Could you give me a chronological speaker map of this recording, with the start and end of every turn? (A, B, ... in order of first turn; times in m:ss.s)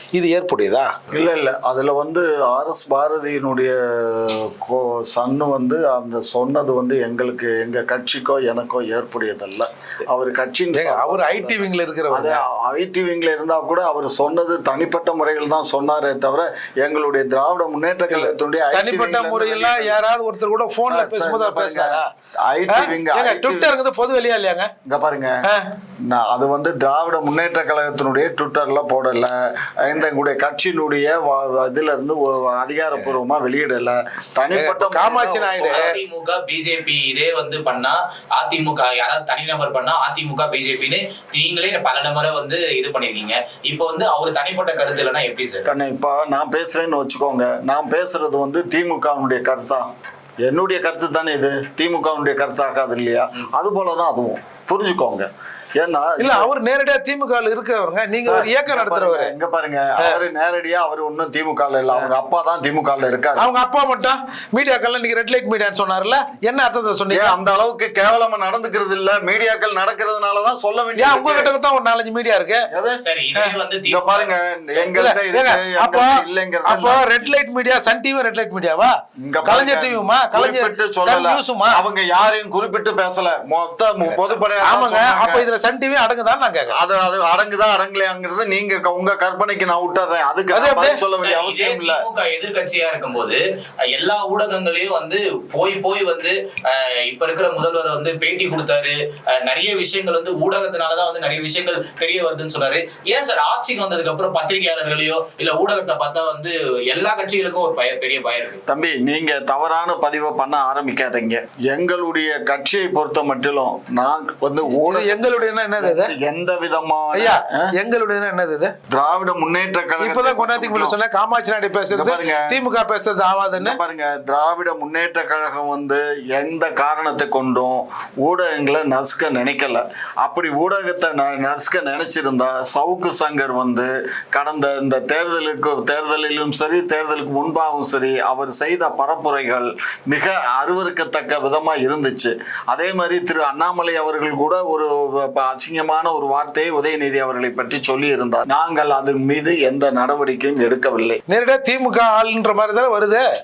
0:00.1-0:00.9 A
0:01.1-0:20.0 B
0:10.7-0:12.4 A
0:18.1-0:22.1 A
0:20.9-0:23.7 B
0:22.7-0:24.7 A
0:24.9-0:25.3 B
0:26.1-0:35.8 B
0:34.5-0:35.9 A
0:35.6-0:45.7 C
0:45.6-0:49.8 B
0:50.4-0:56.5 B
0:56.2-0:59.3 A
0:58.2-1:03.5 B
1:03.4-1:07.3 A
1:07.1-1:11.5 B
1:11.0-1:12.7 A
1:12.7-1:13.0 B
1:13.0-1:14.9 C
1:13.9-1:17.3 B
1:14.9-1:18.9 A
1:19.2-1:25.4 B
1:19.4-1:21.8 A
1:24.0-1:26.8 A
1:26.7-1:32.0 B
1:30.5-1:31.0 A
1:31.2-1:48.6 C
1:48.7-1:57.7 B
1:54.8-1:56.1 A
1:57.1-1:58.7 A
1:58.9-2:01.0 B
2:00.0-2:03.8 A
2:01.9-2:02.6 B
2:03.5-2:31.2 B
2:31.3-2:33.2 A